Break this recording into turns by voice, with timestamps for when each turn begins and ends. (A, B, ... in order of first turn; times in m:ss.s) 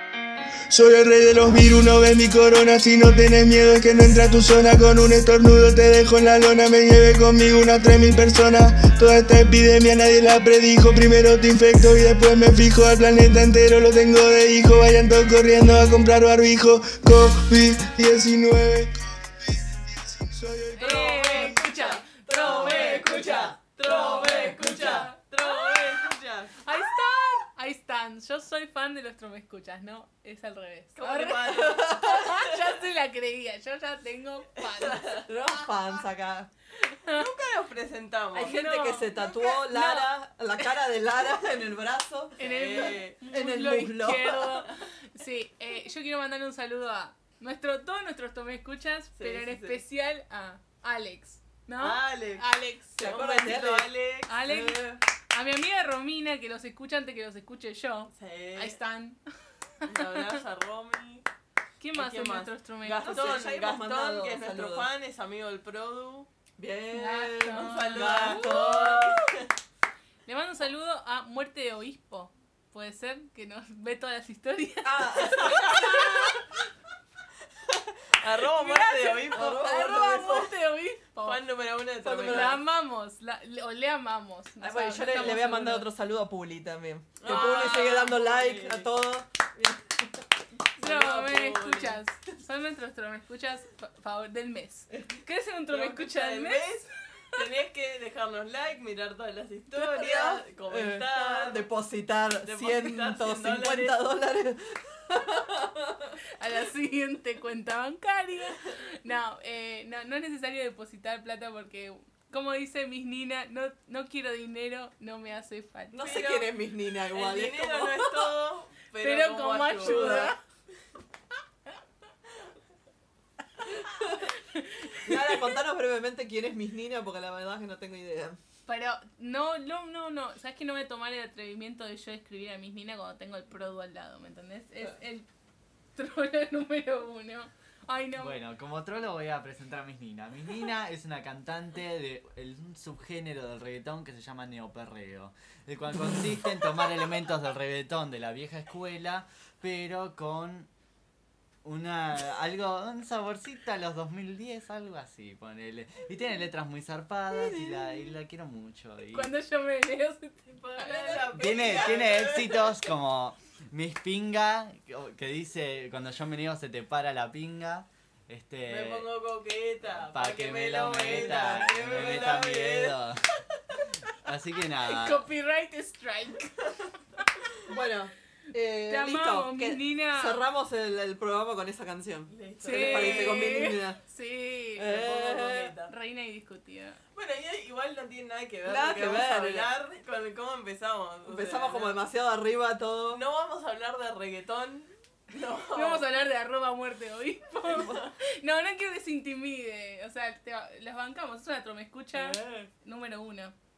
0:00.7-0:19.0 A
0:20.2-0:21.6 A
0:20.7-0:26.0 B
0:20.8-0:26.7 C
0:22.1-0:25.1 D
0:26.6-0:35.3 B
0:31.0-0:32.6 C
0:34.6-0:35.3 C
0:35.2-0:36.5 D
0:36.8-0:37.3 B
0:37.1-0:38.6 C
0:38.3-0:44.7 D
0:38.4-0:40.1 B
0:42.4-0:43.2 C
0:42.4-0:53.1 B
0:49.2-0:49.8 C
0:51.8-0:52.4 C
0:53.0-0:54.4 C
0:53.0-0:53.9 D
0:54.3-1:00.2 B
0:54.5-0:55.0 D
0:58.1-0:58.8 C
0:59.9-1:01.3 C
1:01.8-1:03.5 B
1:01.9-1:06.3 C
1:03.0-1:04.9 D
1:06.6-1:09.4 D
1:06.9-1:09.0 B
1:07.5-1:09.5 C
1:10.3-1:16.4 B
1:14.8-1:16.4 D
1:17.7-1:20.5 C
1:18.5-1:21.4 B
1:19.3-1:20.5 D
1:21.2-1:22.6 C
1:22.0-1:22.6 D
1:22.2-1:25.9 B
1:24.6-1:30.2 D
1:27.2-1:28.9 C
1:27.3-1:28.1 B
1:30.8-1:32.0 C
1:30.8-1:37.2 B
1:35.7-1:41.7 C
1:39.8-1:46.2 D
1:42.5-1:44.0 C
1:46.4-1:56.3 B
1:55.9-1:58.0 D
1:56.0-1:56.5 C
1:57.1-2:00.3 C
1:59.0-2:00.4 B
1:59.8-2:00.3 D
2:03.9-2:04.2 D
2:04.1-2:05.5 B
2:05.0-2:08.4 D
2:08.7-2:15.3 B
2:16.0-2:18.4 B
2:18.2-2:30.7 E
2:31.6-2:39.3 E
2:37.5-2:38.1 B
2:39.1-2:42.0 B
2:40.5-2:42.8 C
2:41.3-2:49.1 E
2:48.7-2:53.0 C
2:50.0-2:53.3 E
2:54.2-2:55.2 E
2:54.8-2:57.2 B
2:57.7-3:04.0 D
2:58.9-3:00.4 B
3:02.3-3:03.7 C
3:02.6-3:05.0 B
3:04.8-3:05.7 D
3:04.9-3:05.9 C
3:05.9-3:07.0 B
3:07.1-3:12.0 C
3:08.6-3:09.7 D
3:11.3-3:13.2 D
3:13.1-3:16.1 C
3:15.7-3:23.5 B
3:17.7-3:18.1 C
3:22.1-3:22.7 C